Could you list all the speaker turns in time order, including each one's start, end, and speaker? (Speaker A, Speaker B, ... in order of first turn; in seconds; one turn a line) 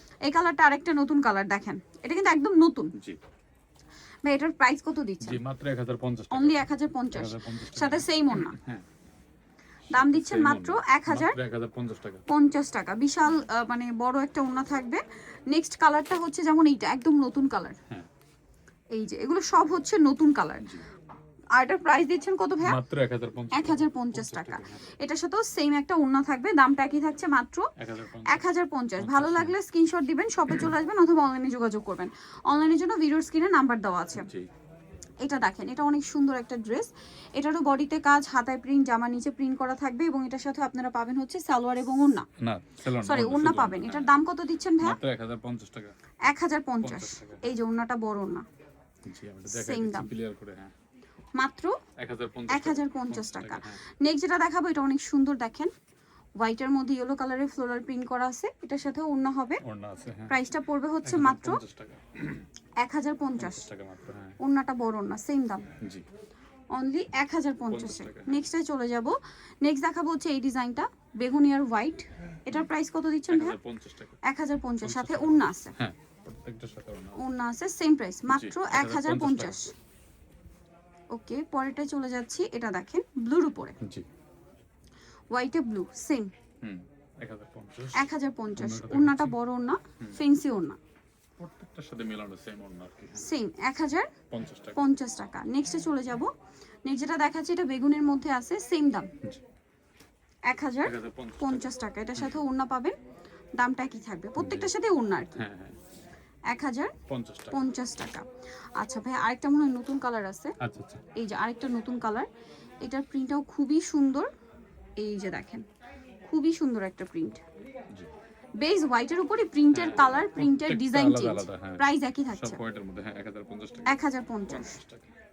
Speaker A: 0.2-2.9
Speaker A: 4.2-5.4
Speaker B: 5.2-8.8
Speaker A: 6.3-8.6
Speaker B: 9.9-12.2
Speaker A: 9.9-11.4
Speaker A: 12.3-17.8
Speaker A: 18.9-20.7
Speaker B: 20.6-20.9
Speaker A: 21.6-22.8
Speaker B: 22.6-24.9
Speaker A: 23.5-27.7
Speaker B: 27.8-29.6
Speaker A: 28.3-34.3
Speaker B: 34.1-34.5
Speaker A: 35.2-42.3
Speaker B: 42.4-44.2
Speaker A: 43.0-45.0
Speaker B: 44.8-45.9
Speaker A: 46.3-48.5
Speaker B: 46.8-47.5
Speaker B: 49.0-50.7
Speaker A: 49.5-50.1
Speaker A: 51.4-51.8
Speaker B: 52.0-53.8
Speaker A: 52.5-55.7
Speaker A: 56.4-59.6
Speaker B: 59.6-60.4
Speaker A: 60.3-61.6
Speaker B: 61.0-62.5
Speaker A: 62.8-63.6
Speaker B: 63.4-64.4
Speaker A: 64.4-65.7
Speaker B: 65.8-66.0
Speaker A: 66.7-73.6
Speaker B: 67.7-68.4
Speaker B: 73.3-74.2
Speaker A: 74.2-75.8
Speaker B: 74.8-77.2
Speaker A: 77.2-79.7
Speaker B: 78.3-79.6
Speaker A: 81.1-83.8
Speaker B: 83.8-84.1
Speaker A: 85.3-86.3
Speaker B: 86.6-89.4
Speaker A: 87.9-90.8
Speaker B: 91.4-93.3
Speaker A: 93.2-94.1
Speaker B: 94.3-94.8
Speaker A: 94.8-96.3
Speaker A: 96.9-99.1
Speaker A: 100.5-103.0
Speaker B: 100.8-102.4
Speaker A: 103.6-105.4
Speaker B: 104.4-104.7
Speaker B: 105.4-105.8
Speaker A: 106.5-107.0
Speaker B: 107.1-107.6
Speaker A: 107.5-108.3
Speaker A: 108.8-110.6
Speaker B: 110.6-111.0
Speaker A: 111.1-112.3
Speaker A: 112.8-114.3
Speaker A: 115.0-115.7
Speaker A: 116.2-117.4
Speaker A: 118.6-122.6
Speaker B: 119.7-125.1
Speaker A: 123.9-124.8